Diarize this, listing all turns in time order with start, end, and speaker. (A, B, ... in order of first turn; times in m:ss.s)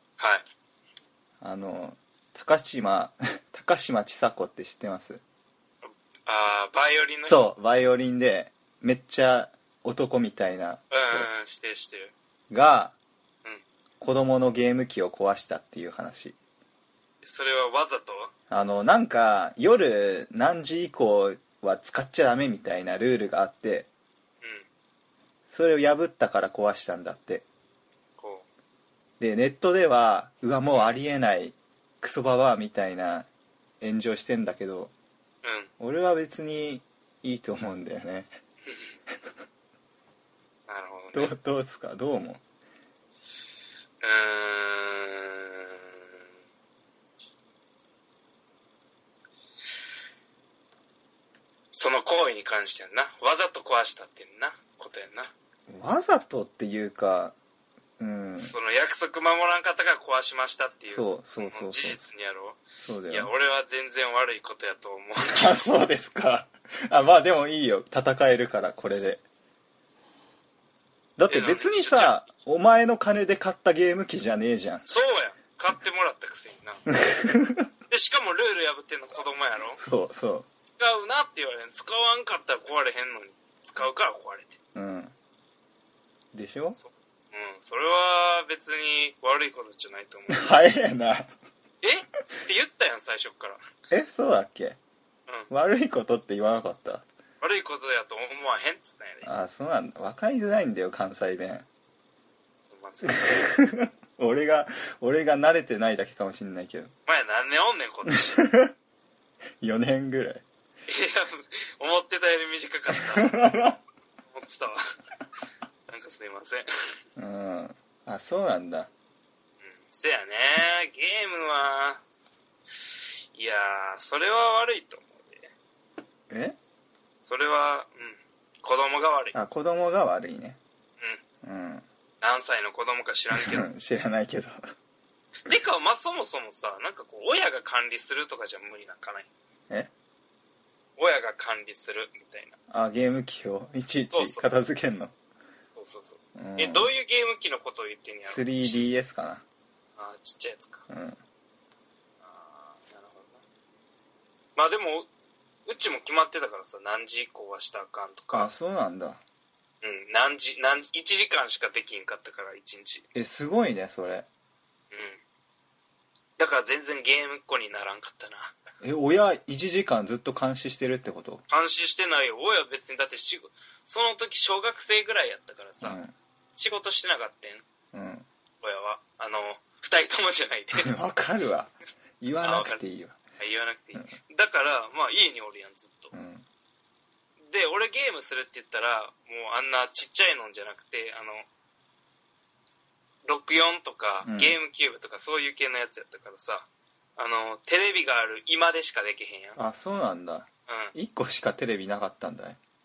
0:00.2-0:00.4 A
0:01.4-0:05.2 B
0:05.8-0:07.4 A
0:07.3-0:11.3 B
0:10.9-0:12.1 A
0:12.5-0:13.0 B
0:14.0-0:16.4 B
0:17.2-0:18.3 A
0:18.5-0:23.9 B
0:25.5-0:27.5 B
0:28.2-0:28.5 A
0:29.2-0:33.3 B
0:33.8-0:34.9 B
0:35.4-0:35.7 A
0:35.8-0:38.3 B
0:38.6-0:39.0 A
0:40.7-0:41.3 A
0:41.1-0:42.4 B
0:44.0-0:46.0 A
0:51.7-0:55.3 A
0:55.7-0:57.4 B
0:58.0-0:58.5 B
0:58.4-1:05.7 A
1:00.9-1:02.0 B
1:02.8-1:03.3 B
1:05.3-1:09.2 B
1:11.2-1:14.9 B
1:11.3-1:12.3 A
1:14.8-1:16.8 A
1:16.9-1:17.7 B
1:17.9-1:19.8 A
1:19.8-1:20.5 B
1:20.8-1:24.6 A
1:24.8-1:25.1 B
1:26.3-1:26.8 B
1:26.7-1:30.5 A
1:30.3-1:31.3 B
1:31.8-1:33.6 A
1:33.9-1:34.8 B
1:35.5-1:37.1 B
1:37.4-1:39.3 A
1:39.2-1:41.7 B
1:42.6-1:43.5 A
1:43.1-1:46.9 B
1:47.1-1:48.5 A
1:48.4-1:48.7 B
1:49.6-1:50.4 B
1:50.9-1:53.4 A
1:53.2-1:53.8 B
1:54.3-1:54.8 A
1:55.9-1:56.7 A
1:57.2-1:58.9 B
1:59.6-2:02.0 A
2:02.7-2:05.5 A
2:06.3-2:06.6 B
2:07.2-2:09.4 A
2:09.3-2:10.6 B
2:11.4-2:11.8 B
2:12.2-2:13.7 A
2:13.3-2:14.6 B
2:15.5-2:19.3 A
2:21.0-2:22.6 A
2:22.7-2:25.1 B
2:24.1-2:24.5 A
2:25.8-2:28.9 A
2:26.4-2:26.9 B
2:28.3-2:29.4 B
2:30.0-2:30.9 A
2:30.9-2:31.2 B
2:32.2-2:33.4 A
2:34.6-2:35.1 A
2:35.7-2:38.5 A
2:38.3-2:39.2 B
2:39.8-2:43.1 A
2:43.1-2:44.3 B
2:44.9-2:45.2 A
2:46.4-2:48.6 A
2:48.8-2:51.4 B
2:51.5-2:56.0 A
2:55.8-2:56.1 B
2:56.6-2:57.6 A
2:57.9-2:58.3 B
2:58.6-3:01.0 A
3:00.8-3:03.2 B
3:02.4-3:02.8 A
3:03.4-3:06.1 A
3:06.1-3:06.4 B
3:07.5-3:11.5 A
3:13.2-3:19.6 A
3:14.2-3:14.6 B
3:19.6-3:22.6 B
3:20.7-3:20.9 A